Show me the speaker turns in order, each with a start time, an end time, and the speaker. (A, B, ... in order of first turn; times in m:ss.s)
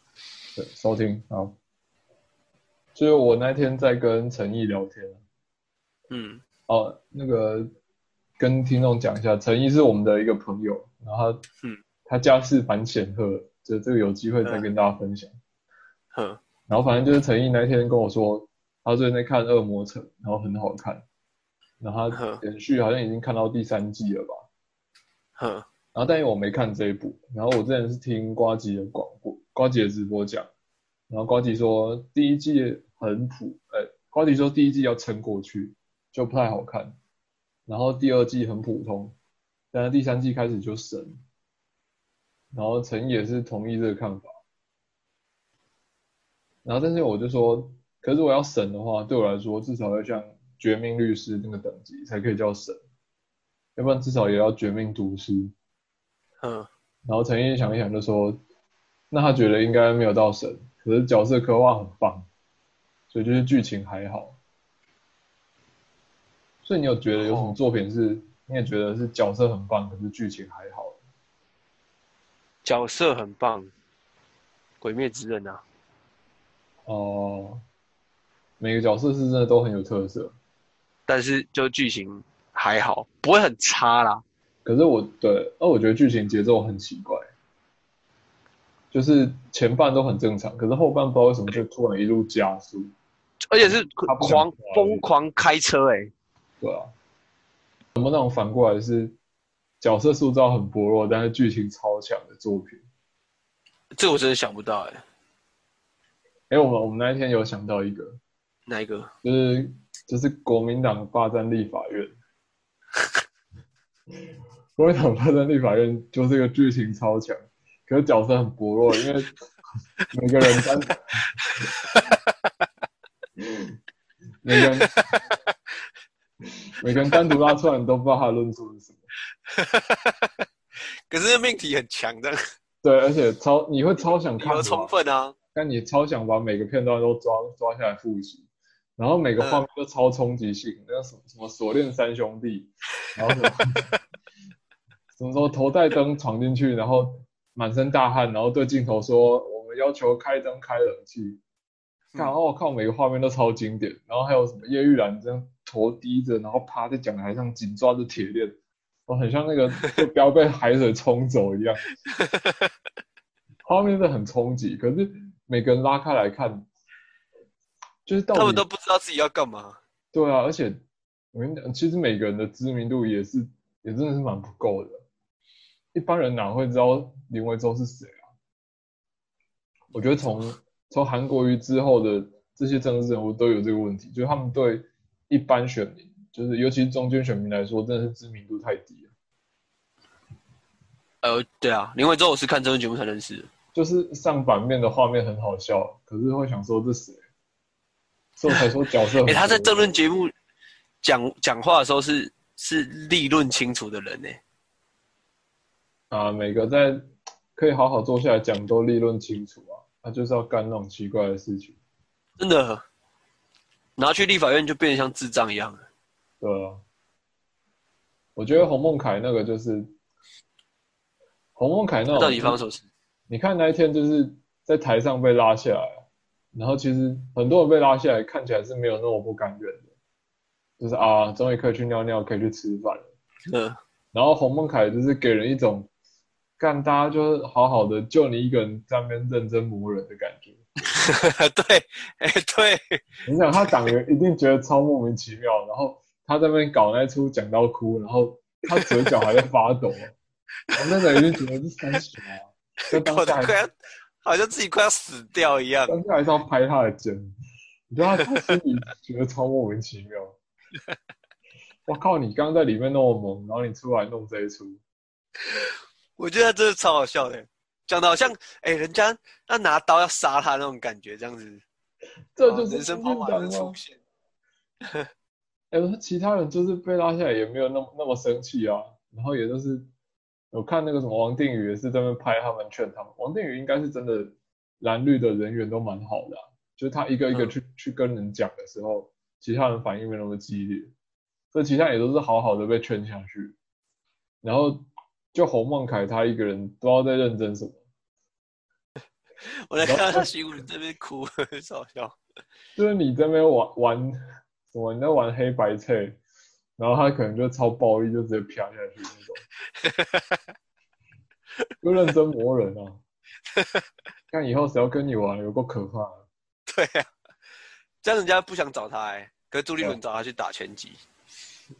0:00.6-0:01.6 A
0:02.9-0:05.2 A
0:06.1-0:06.4 B
0:06.7-0:07.7 A
0:08.4-0:11.4 A
0:12.0-0:15.3 A
0:16.1-0:16.4 B
0:16.7-0:21.0 A
0:21.8-0:24.4 A
0:22.1-0:22.4 B
0:25.4-0:25.6 B
0:25.9-0:30.5 A
0:31.1-0:37.0 A
0:37.7-0:39.2 A
0:39.7-0:41.2 A
0:42.5-0:44.3 A
0:46.6-0:52.8 A
0:53.8-0:55.5 A
0:56.4-0:56.7 B
0:57.0-0:58.4 A
0:59.1-1:02.3 A
1:03.1-1:04.4 A
1:06.6-1:11.0 A
1:07.2-1:07.6 B
1:12.6-1:13.7 B
1:14.8-1:15.6 B
1:16.8-1:17.6 A
1:18.6-1:20.4 A
1:21.1-1:24.2 B
1:24.6-1:27.2 A
1:28.9-1:32.9 A
1:33.5-1:36.1 B
1:33.6-1:35.0 A
1:36.6-1:36.9 A
1:38.0-1:39.2 A
1:39.8-1:42.8 A
1:44.0-1:45.0 B
1:46.5-1:48.2 A
1:48.7-1:49.1 B
1:49.2-1:52.2 A
1:54.8-1:59.3 A
2:00.1-2:01.0 A
2:01.4-2:02.1 B
2:04.4-2:05.2 A
2:06.8-2:09.0 A
2:07.0-2:07.3 B
2:09.5-2:10.3 B
2:11.1-2:12.4 B
2:12.8-2:14.9 A
2:14.4-2:15.3 B
2:15.5-2:18.4 A
2:19.0-2:23.9 A
2:19.4-2:19.6 B
2:25.2-2:31.4 A
2:32.2-2:41.8 A
2:43.6-2:46.7 A
2:48.0-2:48.6 A
2:48.3-2:49.8 B
2:50.1-2:50.8 A
2:51.3-2:55.0 A
2:55.9-2:58.2 A
2:59.9-3:09.1 A
3:11.2-3:13.5 B
3:13.7-3:17.2 A
3:18.4-3:19.9 A
3:19.2-3:20.3 B
3:21.0-3:24.4 B
3:26.1-3:31.8 A
3:32.4-3:32.8 B
3:34.0-3:35.8 B
3:36.4-3:36.8 A
3:38.4-3:39.9 A
3:41.6-3:42.6 A
3:42.1-3:42.8 B
3:43.3-3:49.9 A
3:50.8-3:53.1 A
3:53.5-3:53.8 B
3:54.1-3:55.9 A
3:56.6-4:00.6 A
4:01.0-4:02.9 B
4:03.2-4:10.2 A
4:08.7-4:09.2 B
4:10.7-4:13.6 A
4:12.9-4:13.7 B
4:14.2-4:16.0 B
4:15.9-4:17.3 A
4:17.9-4:20.4 A
4:21.9-4:24.8 A
4:26.2-4:31.6 B
4:32.4-4:33.8 A
4:32.4-4:34.0 B
4:35.7-4:39.9 A
4:40.5-4:50.9 A
4:51.5-4:53.6 A
4:54.4-4:57.8 A
4:59.7-5:02.1 B
4:59.8-5:00.3 A
5:02.8-5:04.2 A
5:04.7-5:06.2 A
5:06.8-5:09.4 A
5:09.8-5:10.4 B
5:11.8-5:13.0 A
5:13.6-5:13.8 B
5:14.3-5:16.2 A
5:16.7-5:17.0 B
5:18.0-5:21.0 B